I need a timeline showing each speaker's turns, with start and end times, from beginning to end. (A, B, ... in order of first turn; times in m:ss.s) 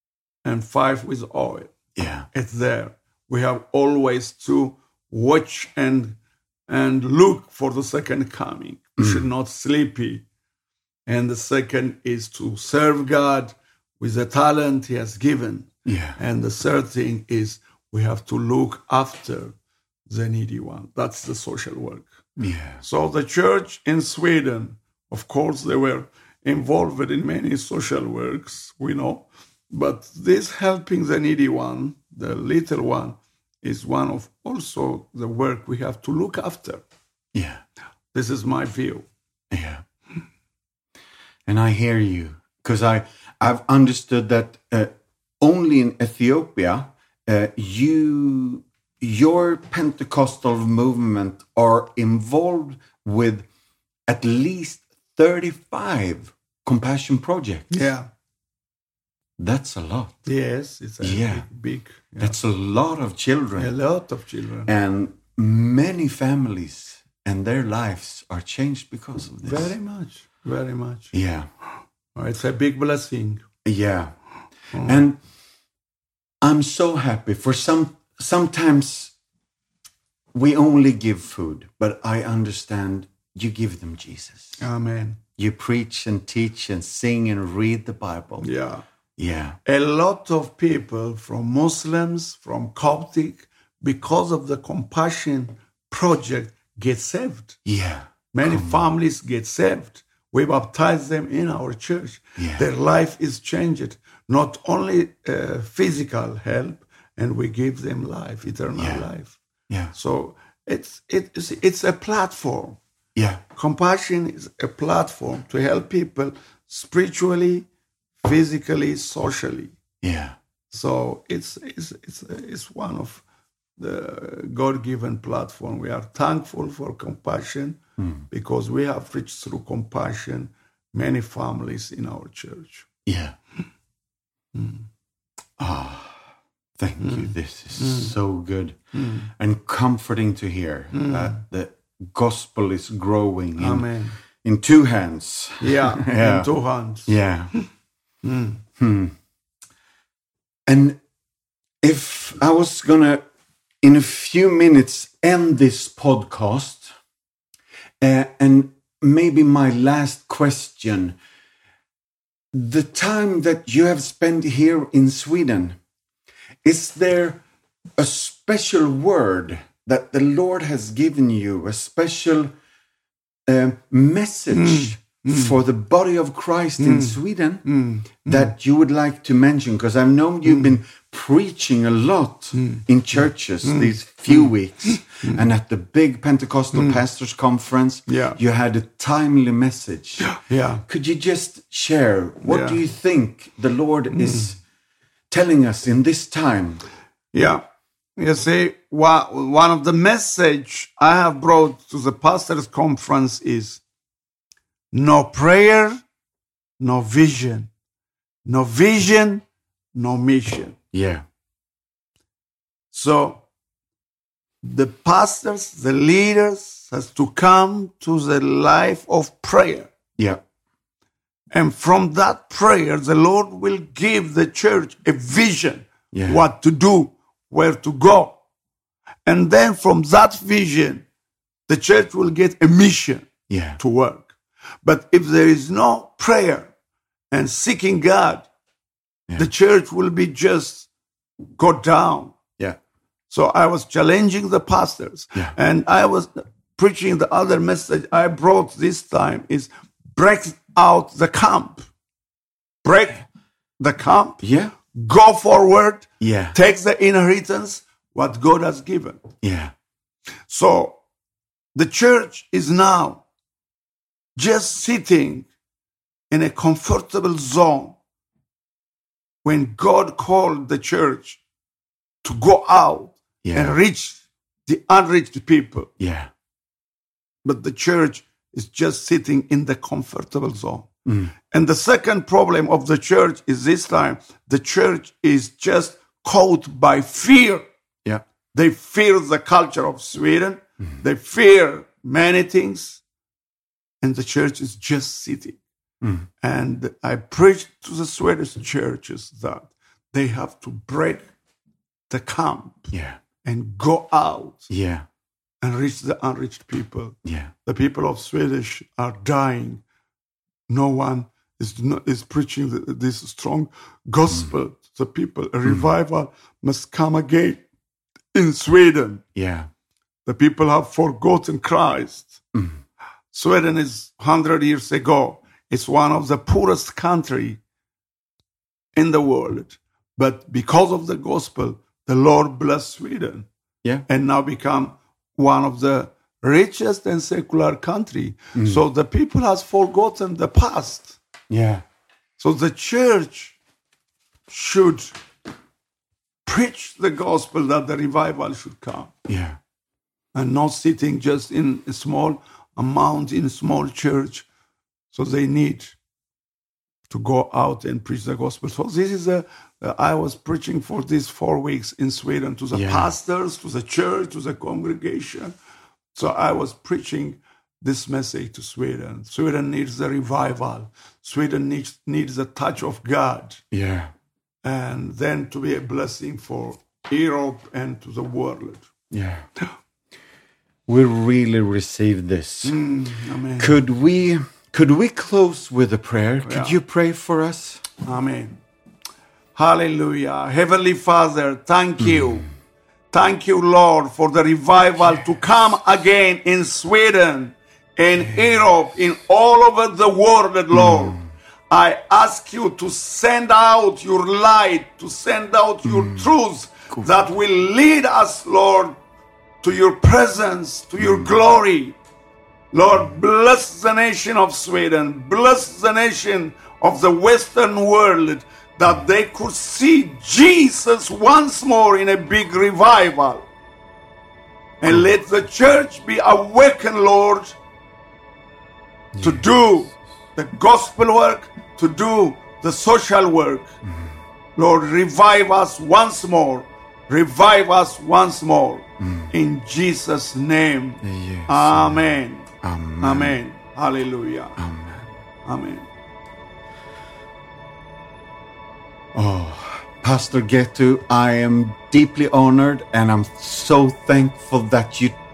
0:00.4-0:01.8 A
0:02.0-0:02.3 B
0:02.3-0:06.2 A
0:06.7-0:10.2 A
0:09.0-0:09.3 B
0:11.1-0:19.6 A
0:15.9-0:16.2 B
0:20.1-0:22.1 A
0:22.4-0:22.8 B
0:22.8-0:36.8 A
0:37.3-0:37.6 B
0:38.1-0:39.1 A
0:39.5-0:39.8 B
0:41.5-0:53.5 B
0:54.1-0:57.8 B
0:57.7-0:58.1 A
0:59.4-1:00.2 B
1:00.3-1:02.4 A
1:01.0-1:01.5 B
1:02.2-1:03.7 B
1:03.6-1:04.7 A
1:04.7-1:09.7 B
1:09.4-1:11.1 A
1:11.1-1:11.5 B
1:12.2-1:13.4 A
1:13.6-1:14.1 B
1:14.7-1:15.0 A
1:14.8-1:15.2 B
1:16.4-1:19.1 B
1:20.3-1:24.6 B
1:24.6-1:25.2 A
1:25.4-1:28.5 B
1:28.4-1:28.8 A
1:29.2-1:29.6 B
1:29.6-1:37.6 A
1:37.6-1:38.9 B
1:38.3-1:49.4 A
1:42.4-1:42.7 B
1:48.8-1:49.1 B
1:49.9-1:52.8 A
1:53.2-1:53.4 B
1:53.6-1:57.7 A
1:58.2-1:59.8 A
2:00.0-2:00.4 B
2:00.7-2:03.2 A
2:03.8-2:07.8 A
2:08.0-2:08.3 B
2:08.3-2:12.9 A
2:13.1-2:13.4 B
2:14.6-2:14.8 A
2:15.6-2:16.2 B
2:16.8-2:18.8 B
2:17.0-2:18.2 A
2:18.9-2:19.3 A
2:19.4-2:23.9 B
2:20.9-2:21.4 A
2:23.6-2:24.2 A
2:24.4-2:26.5 B
2:25.6-2:27.6 A
2:27.1-2:27.5 B
2:28.2-2:28.6 A
2:28.8-2:29.1 B
2:30.7-2:31.0 B
2:31.8-2:33.2 B
2:33.8-2:36.9 B
2:38.0-2:41.2 B
2:42.5-2:45.8 B
2:46.6-2:47.4 B
2:48.0-2:52.5 B
2:53.5-2:57.7 B
2:54.5-2:55.6 A
2:56.8-2:58.5 A
2:58.3-3:14.6 B
3:00.5-3:00.8 A
3:02.5-3:05.4 A
3:06.7-3:07.0 A
3:08.1-3:08.4 A
3:10.2-3:10.8 A
3:12.4-3:12.8 A
3:14.1-3:14.5 A
3:15.3-3:16.8 B
3:17.3-3:17.6 A
3:18.2-3:23.8 A
3:24.9-3:26.0 A
3:26.8-3:27.7 A
3:28.5-3:29.4 A
3:30.0-3:30.8 A
3:30.9-3:31.2 B
3:32.9-3:33.4 A
3:34.6-3:39.9 A
3:41.5-3:48.4 A
3:46.1-3:46.4 B
3:49.3-3:51.1 A
3:51.7-3:56.7 A
3:53.5-3:53.8 B
3:57.3-3:58.5 A
3:59.4-4:00.9 A
4:01.6-4:02.4 A
4:03.3-4:11.8 A
4:12.8-4:13.2 A
4:13.8-4:19.3 A
4:14.4-4:14.8 B
4:16.2-4:16.6 B
4:19.4-4:19.7 B
4:20.5-4:21.0 A
4:21.8-4:23.2 A
4:24.4-4:25.5 A
4:26.3-4:28.0 A
4:29.4-4:31.4 A
4:32.2-4:35.9 A
4:33.4-4:33.8 B
4:36.0-4:36.3 B
4:37.4-4:40.9 A
4:41.1-4:41.3 B
4:41.5-4:47.6 A
4:48.5-4:53.0 A
4:54.0-4:55.6 A
4:56.0-4:56.3 B
4:56.4-5:01.3 A
5:02.1-5:02.9 A
5:02.9-5:03.2 B
5:03.4-5:04.7 A
5:04.7-5:05.0 B
5:05.6-5:09.8 A
5:07.2-5:07.5 B
5:10.7-5:17.6 A
5:18.3-5:19.2 A
5:19.4-5:19.7 B
5:20.3-5:22.4 A
5:23.3-5:27.6 A
5:29.0-5:33.5 A
5:34.1-5:41.2 A
5:38.6-5:38.8 B
5:41.5-5:41.8 B
5:42.4-5:43.6 A
5:44.5-5:45.1 A
5:46.5-5:49.1 A
5:49.3-5:49.6 B
5:50.3-5:54.5 A
5:55.1-5:56.0 A
5:57.1-6:05.5 A
6:02.7-6:03.1 B
6:06.1-6:13.6 A
6:13.7-6:14.1 B
6:14.6-6:18.9 A
6:19.1-6:19.4 B
6:20.9-6:22.8 B
6:22.6-6:23.8 A
6:23.6-6:27.9 B
6:26.4-6:26.8 A
6:28.0-6:28.6 A
6:29.6-6:32.5 A
6:33.1-6:41.2 A
6:40.7-6:41.2 B
6:41.7-6:49.0 A
6:45.9-6:46.3 B
6:49.6-6:52.0 A
6:51.0-6:51.3 B
6:52.7-7:03.5 A
7:04.8-7:07.6 A
7:09.1-7:10.0 B
7:09.2-7:13.7 A
7:13.8-7:14.2 B
7:14.6-7:22.5 A
7:19.0-7:19.3 B
7:21.0-7:23.4 B
7:23.0-7:24.6 A
7:24.6-7:25.1 B
7:25.4-7:25.9 A
7:29.1-7:35.2 B